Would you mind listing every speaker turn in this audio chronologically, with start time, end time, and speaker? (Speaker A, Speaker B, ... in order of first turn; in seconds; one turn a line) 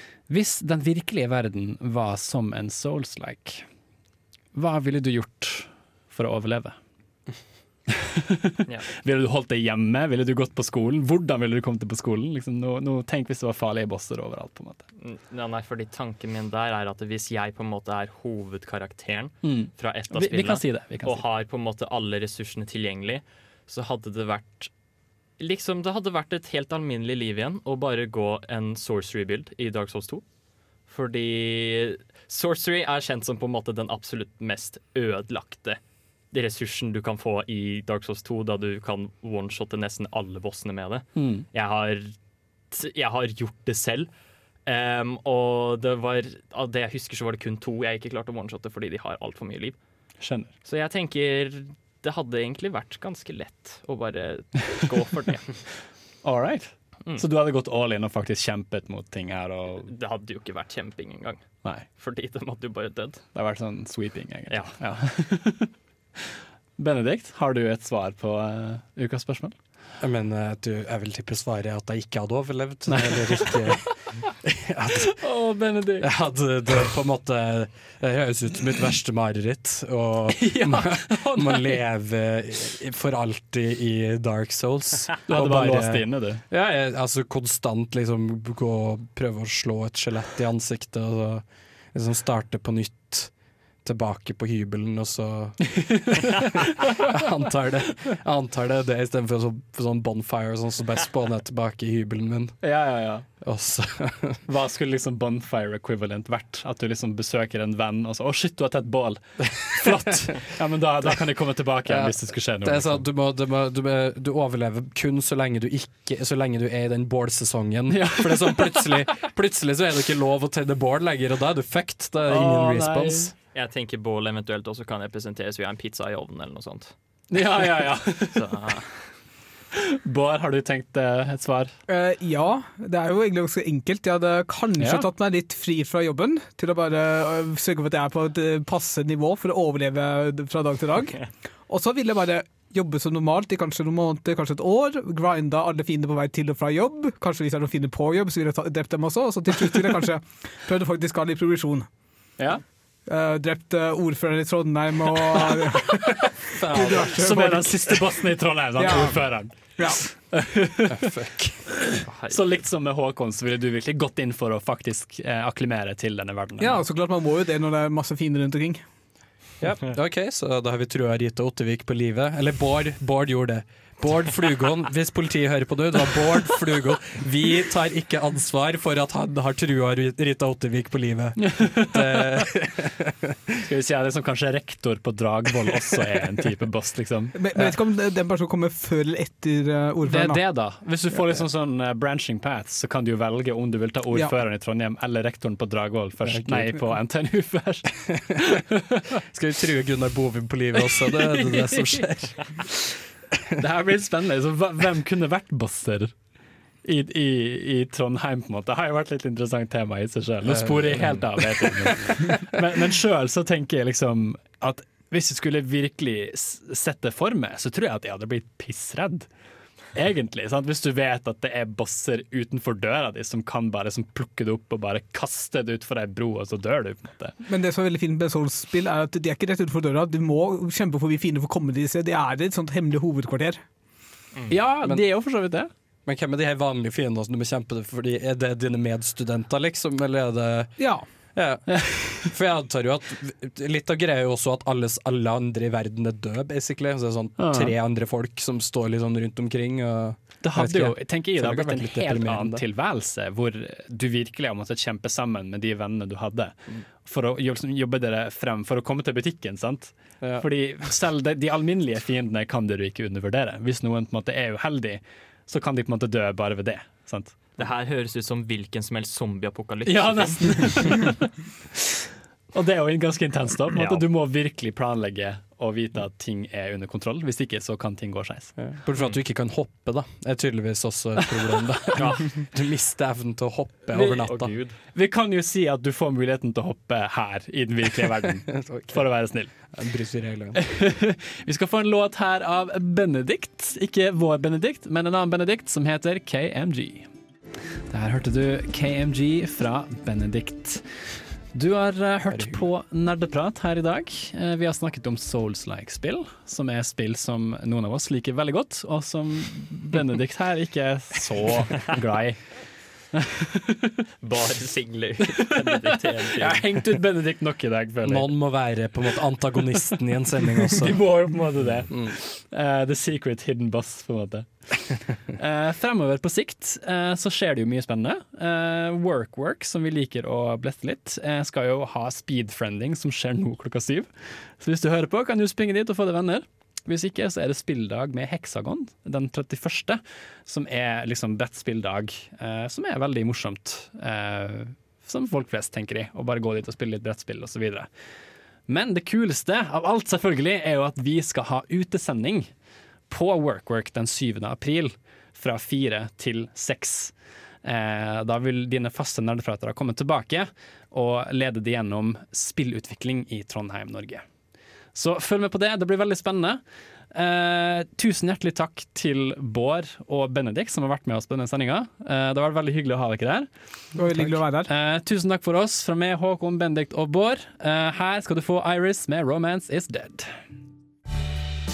Speaker A: 0.3-3.7
Speaker A: 4.5-6.8
Speaker A: 7.9-14.8
Speaker B: 15.0-24.7
Speaker A: 19.4-21.2
Speaker B: 25.4-30.2
Speaker B: 30.9-35.8
Speaker B: 36.3-42.1
Speaker A: 41.1-41.5
Speaker B: 42.7-44.1
Speaker B: 44.6-49.8
Speaker A: 50.2-50.5
Speaker B: 50.6-55.6
Speaker A: 56.2-59.9
Speaker B: 59.8-63.2
Speaker A: 63.3-66.2
Speaker B: 64.5-64.8
Speaker A: 66.8-69.5
Speaker C: 70.0-75.2
Speaker A: 72.9-73.8
Speaker A: 75.2-76.1
Speaker C: 76.0-93.3
Speaker A: 80.3-81.8
Speaker A: 85.3-86.4
Speaker C: 93.8-102.6
Speaker A: 95.7-96.3
Speaker A: 102.6-103.2
Speaker C: 103.4-104.4
Speaker A: 104.5-113.0
Speaker C: 111.8-123.3
Speaker A: 117.9-119.0
Speaker A: 122.2-123.3
Speaker B: 123.5-126.9
Speaker A: 127.3-128.7
Speaker B: 128.3-129.2
Speaker A: 129.7-131.7
Speaker D: 131.9-151.9
Speaker A: 134.8-135.1
Speaker A: 152.4-152.6
Speaker D: 153.1-156.2
Speaker C: 156.5-157.2
Speaker D: 156.7-158.0
Speaker A: 157.0-161.1
Speaker D: 158.8-160.0
Speaker C: 160.9-161.6
Speaker A: 161.9-166.8
Speaker B: 162.0-162.4
Speaker D: 166.6-168.8
Speaker C: 169.6-183.6
Speaker A: 181.4-182.5
Speaker A: 183.6-187.7
Speaker D: 187.3-190.4
Speaker A: 190.1-198.6
Speaker C: 196.2-196.8
Speaker C: 199.3-202.9
Speaker A: 203.6-206.1
Speaker A: 206.8-219.3
Speaker C: 210.4-212.4
Speaker A: 219.9-227.3
Speaker D: 227.4-233.6
Speaker A: 234.5-235.7
Speaker C: 236.1-240.8
Speaker D: 240.8-241.0
Speaker C: 241.3-252.6
Speaker A: 241.7-242.2
Speaker A: 247.4-247.7
Speaker A: 250.4-267.6
Speaker C: 260.2-260.4
Speaker B: 267.6-271.1
Speaker A: 269.9-271.8
Speaker A: 272.5-278.7
Speaker B: 273.7-274.0
Speaker C: 278.6-284.5
Speaker B: 281.9-282.4
Speaker B: 283.9-284.8
Speaker A: 284.9-289.5
Speaker C: 288.5-289.1
Speaker C: 289.7-290.6
Speaker A: 290.5-297.1
Speaker A: 297.9-300.8
Speaker A: 301.5-312.6
Speaker C: 302.3-302.6
Speaker A: 313.1-314.0
Speaker B: 314.2-316.6
Speaker A: 315.4-318.3
Speaker C: 318.0-321.0
Speaker A: 320.7-347.9
Speaker A: 348.7-352.5
Speaker A: 353.1-364.2
Speaker A: 364.9-366.6
Speaker A: 367.1-373.5
Speaker D: 373.9-374.7
Speaker A: 374.6-380.4